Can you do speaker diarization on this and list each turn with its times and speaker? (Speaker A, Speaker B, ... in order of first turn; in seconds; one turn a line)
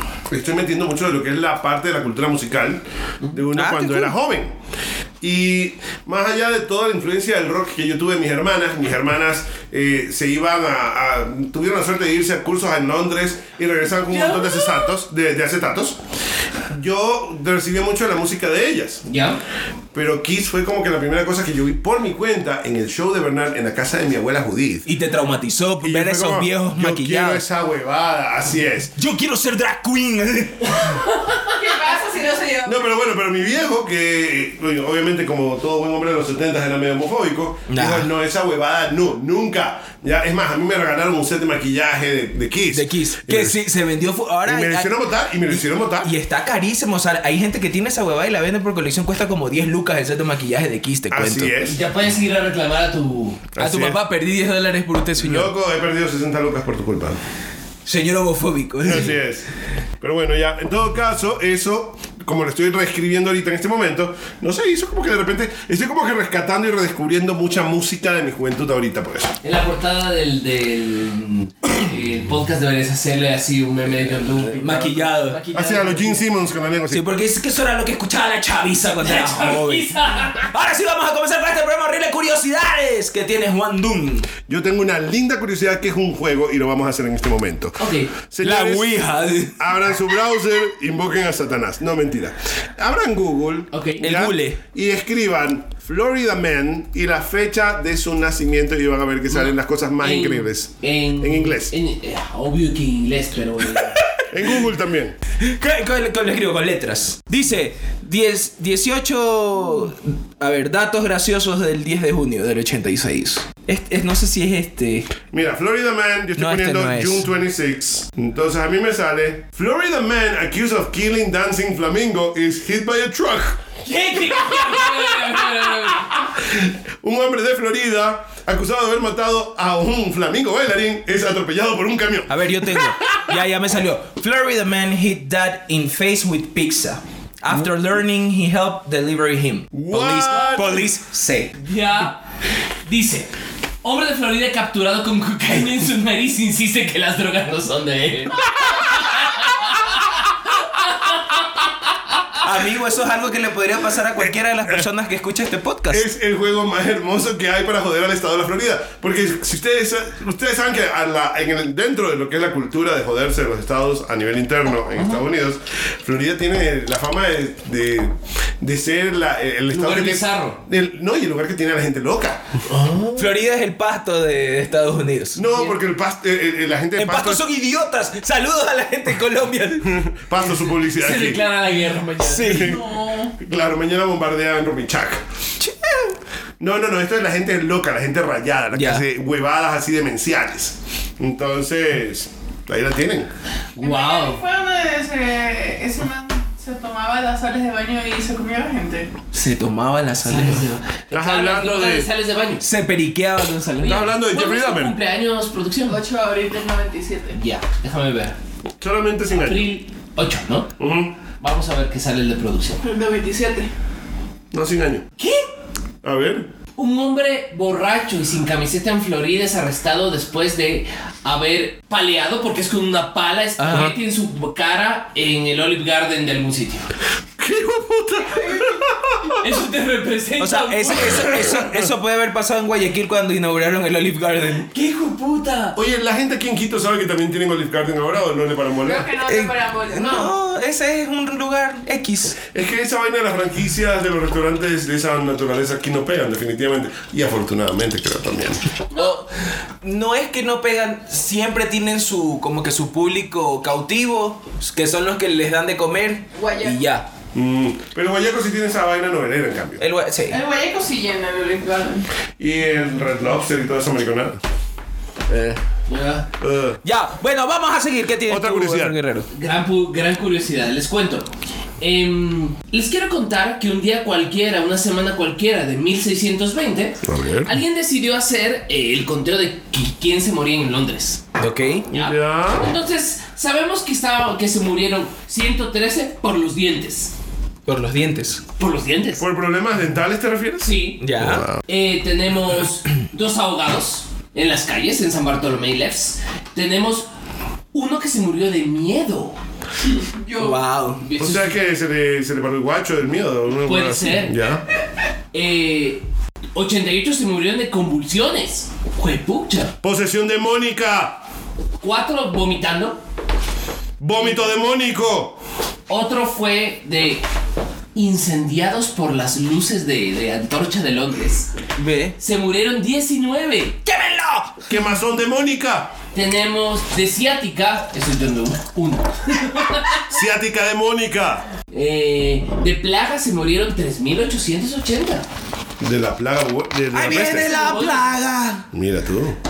Speaker A: 0.3-4.5
Speaker B: 3.5-4.1
Speaker A: 5.2-16.0
Speaker C: 14.1-14.9
Speaker A: 16.7-19.1
Speaker C: 19.1-19.4
Speaker A: 19.9-24.9
Speaker B: 24.9-27.4
Speaker A: 25.8-28.9
Speaker B: 28.9-31.0
Speaker D: 31.3-32.9
Speaker A: 32.6-43.6
Speaker B: 37.7-38.1
Speaker B: 42.7-44.9
Speaker A: 44.4-46.1
Speaker B: 45.5-51.5
Speaker A: 51.1-51.8
Speaker C: 51.6-53.4
Speaker A: 53.5-54.0
Speaker B: 53.6-55.5
Speaker A: 55.2-57.2
Speaker B: 57.9-59.2
Speaker A: 58.8-59.5
Speaker A: 60.0-69.3
Speaker C: 69.4-76.2
Speaker B: 74.5-75.4
Speaker A: 75.5-77.0
Speaker B: 76.9-84.3
Speaker C: 79.0-80.5
Speaker A: 84.5-89.0
Speaker C: 87.8-88.1
Speaker B: 88.4-89.9
Speaker A: 89.6-101.7
Speaker C: 93.7-94.1
Speaker B: 94.0-94.6
Speaker C: 99.3-104.0
Speaker B: 103.8-104.2
Speaker A: 104.3-105.2
Speaker B: 105.4-115.1
Speaker A: 115.3-123.7
Speaker B: 116.3-117.3
Speaker C: 123.8-126.1
Speaker A: 124.4-125.0
Speaker A: 126.4-133.2
Speaker B: 132.3-141.6
Speaker A: 139.7-140.8
Speaker C: 140.2-140.7
Speaker C: 141.6-142.2
Speaker C: 142.8-143.3
Speaker C: 143.8-151.3
Speaker B: 152.4-156.0
Speaker A: 155.9-172.5
Speaker C: 164.9-165.2
Speaker C: 169.7-170.6
Speaker C: 172.7-173.3
Speaker B: 173.2-175.4
Speaker A: 175.3-177.4
Speaker B: 176.9-180.0
Speaker A: 179.8-181.4
Speaker C: 180.9-182.8
Speaker B: 182.2-182.8
Speaker A: 182.5-182.8
Speaker D: 182.6-183.3
Speaker A: 183.4-185.2
Speaker B: 185.6-186.2
Speaker A: 186.6-193.3
Speaker B: 188.7-189.0
Speaker C: 193.8-194.4
Speaker D: 193.8-199.1
Speaker B: 199.3-200.7
Speaker C: 200.2-202.6
Speaker A: 201.1-202.1
Speaker B: 202.6-204.0
Speaker C: 203.8-206.0
Speaker A: 203.8-204.9
Speaker D: 205.9-207.4
Speaker C: 207.3-208.3
Speaker A: 208.8-209.7
Speaker C: 209.3-210.7
Speaker A: 210.8-211.1
Speaker C: 211.4-212.8
Speaker D: 212.8-213.7
Speaker A: 214.5-215.1
Speaker C: 215.2-215.4
Speaker A: 216.0-216.5
Speaker C: 216.8-226.9
Speaker B: 223.6-223.9
Speaker A: 223.7-223.9
Speaker A: 227.4-229.4
Speaker D: 228.4-229.3
Speaker C: 229.4-231.4
Speaker B: 230.4-234.7
Speaker A: 231.1-231.9
Speaker C: 234.7-235.8
Speaker A: 235.7-239.1
Speaker D: 238.8-240.3
Speaker B: 239.2-242.4
Speaker A: 242.5-248.6
Speaker C: 248.9-249.2
Speaker B: 248.9-249.3
Speaker B: 249.8-257.1
Speaker D: 256.4-256.8
Speaker A: 257.3-259.8
Speaker B: 259.8-260.4
Speaker D: 260.3-262.1
Speaker A: 262.4-264.4
Speaker B: 265.3-265.6
Speaker C: 265.9-266.3
Speaker A: 266.4-266.8
Speaker B: 266.8-269.3
Speaker A: 268.3-269.0
Speaker C: 269.3-271.3
Speaker C: 271.8-281.2
Speaker A: 277.0-277.5
Speaker B: 281.4-281.9
Speaker A: 281.9-282.7
Speaker C: 281.9-287.1
Speaker B: 287.6-288.4
Speaker C: 288.6-289.2
Speaker A: 289.2-291.6
Speaker C: 290.6-291.0
Speaker B: 291.0-291.4
Speaker C: 291.6-297.1
Speaker C: 297.7-299.4
Speaker D: 299.9-300.6
Speaker B: 300.4-301.0
Speaker C: 301.0-301.6
Speaker A: 301.2-304.6
Speaker C: 303.6-304.4
Speaker C: 305.3-309.7
Speaker A: 309.8-311.2
Speaker C: 311.8-313.0
Speaker A: 314.0-315.4
Speaker C: 315.9-317.2
Speaker C: 317.9-321.5
Speaker B: 321.8-322.1
Speaker C: 322.2-323.8
Speaker B: 323.8-324.6
Speaker A: 324.7-325.9
Speaker C: 326.1-330.0
Speaker A: 330.0-331.4
Speaker C: 331.7-335.2
Speaker A: 335.8-337.6
Speaker B: 336.9-338.7
Speaker C: 337.1-338.0
Speaker A: 338.7-339.4